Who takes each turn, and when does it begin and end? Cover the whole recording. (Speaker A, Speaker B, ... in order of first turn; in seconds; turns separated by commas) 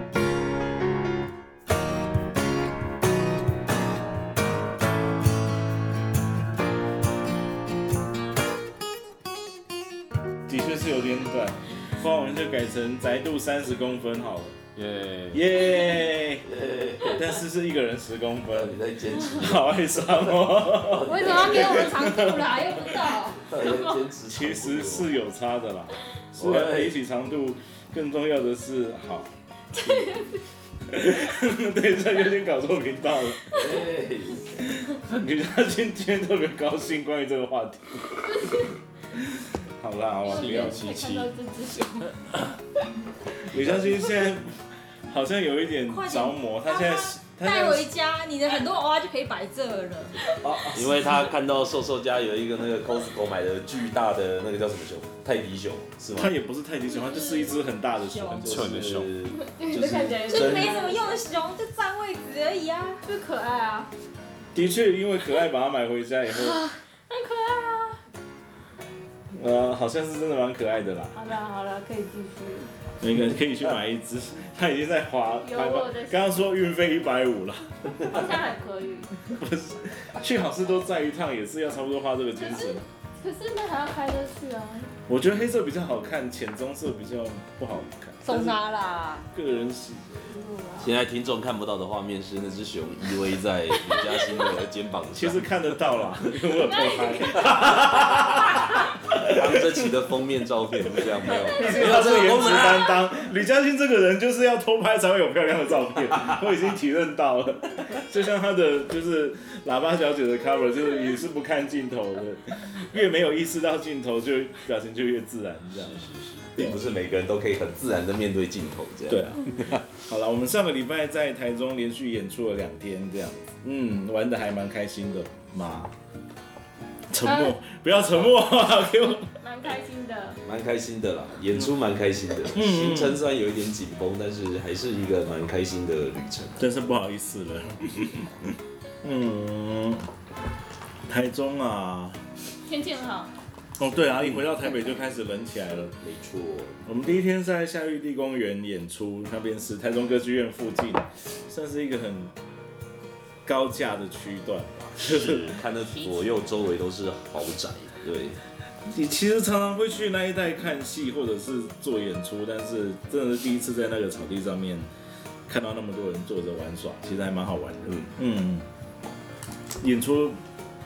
Speaker A: 10.5-14.6, Speaker B: 14.8-15.5, Speaker A: 15.3-16.5, Speaker C: 16.5-17.3, Speaker A: 17.0-18.8, Speaker C: 18.5-22.0, Speaker A: 19.3-22.7, Speaker D: 21.0-23.4, Speaker C: 23.5-25.1, Speaker E: 23.5-24.0, Speaker A: 24.3-29.3, Speaker C: 26.4-26.9, Speaker E: 29.7-30.4, Speaker A: 30.9-33.6, Speaker C: 33.5-34.5, Speaker A: 34.9-38.1, Speaker E: 38.2-38.7, Speaker A: 39.8-40.9, Speaker E: 40.2-42.2, Speaker B: 40.3-41.3, Speaker A: 43.5-44.5, Speaker A: 45.1-47.9, Speaker D: 45.9-50.3, Speaker C: 50.3-56.3, Speaker A: 50.4-50.8, Speaker A: 56.1-59.1, Speaker E: 57.1-57.5, Speaker B: 58.2-59.1, Speaker C: 58.4-60.8, Speaker E: 59.3-61.2, Speaker D: 60.2-63.0, Speaker E: 63.0-63.9, Speaker A: 64.5-66.6, Speaker E: 67.1-68.0, Speaker A: 69.3-71.1, Speaker E: 71.1-72.7, Speaker A: 73.0-78.3, Speaker E: 75.4-76.5, Speaker E: 78.0-79.1, Speaker A: 79.2-82.8, Speaker E: 82.3-84.9, Speaker A: 85.1-88.6, Speaker D: 88.2-89.3, Speaker A: 89.3-90.3, Speaker E: 90.3-90.9, Speaker C: 90.8-95.5, Speaker A: 95.1-99.9, Speaker E: 96.6-97.7, Speaker C: 99.2-103.0, Speaker A: 101.0-116.8, Speaker C: 106.1-106.4, Speaker C: 115.8-119.7, Speaker A: 119.1-125.9, Speaker A: 127.1-129.3, Speaker E: 127.2-127.5, Speaker E: 129.4-130.4, Speaker C: 130.4-136.7, Speaker A: 132.5-133.2, Speaker A: 136.6-140.0, Speaker A: 141.1-142.2, Speaker E: 142.7-143.3, Speaker A: 143.8-145.9, Speaker C: 146.0-146.8, Speaker A: 146.8-152.3, Speaker A: 153.4-155.5, Speaker C: 155.0-158.4, Speaker A: 158.9-164.9, Speaker A: 165.5-168.7, Speaker C: 167.9-168.1, Speaker A: 169.8-170.4